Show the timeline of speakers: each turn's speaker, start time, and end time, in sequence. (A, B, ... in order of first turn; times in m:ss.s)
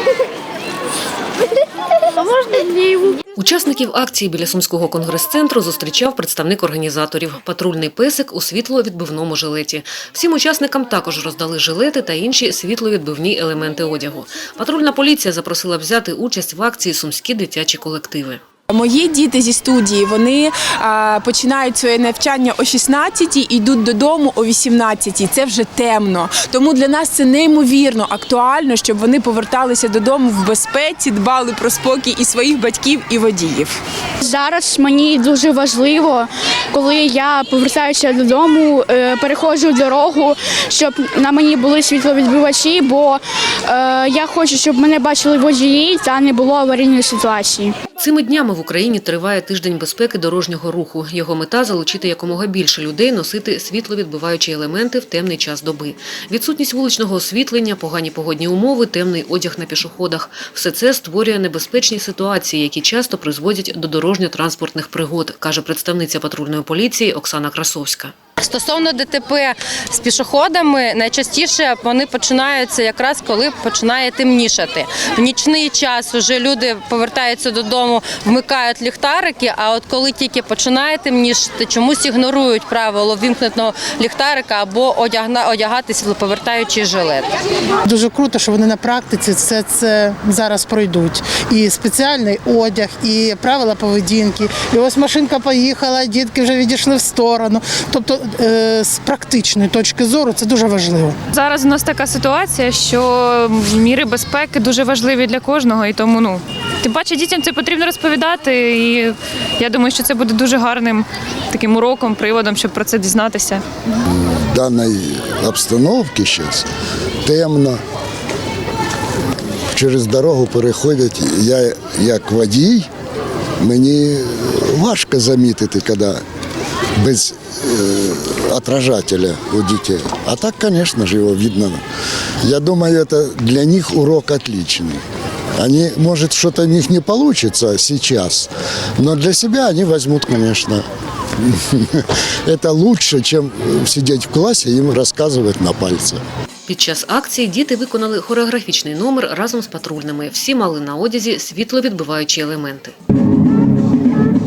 0:03.4-0:18.4 A
0:18.7-0:33.8 B
0:34.2-0:47.8 C
0:48.0-1:08.1 A
1:08.4-1:27.3 D
1:27.8-1:41.2 E
1:41.3-1:53.6 F
1:54.1-1:56.6 G
1:57.2-1:57.8 G
1:59.7-2:02.9 G
2:03.6-2:06.2 G
2:07.0-2:11.8 G
2:12.4-2:15.0 G
2:15.6-2:20.8 G
2:21.5-2:26.2 G
2:26.7-2:32.9 A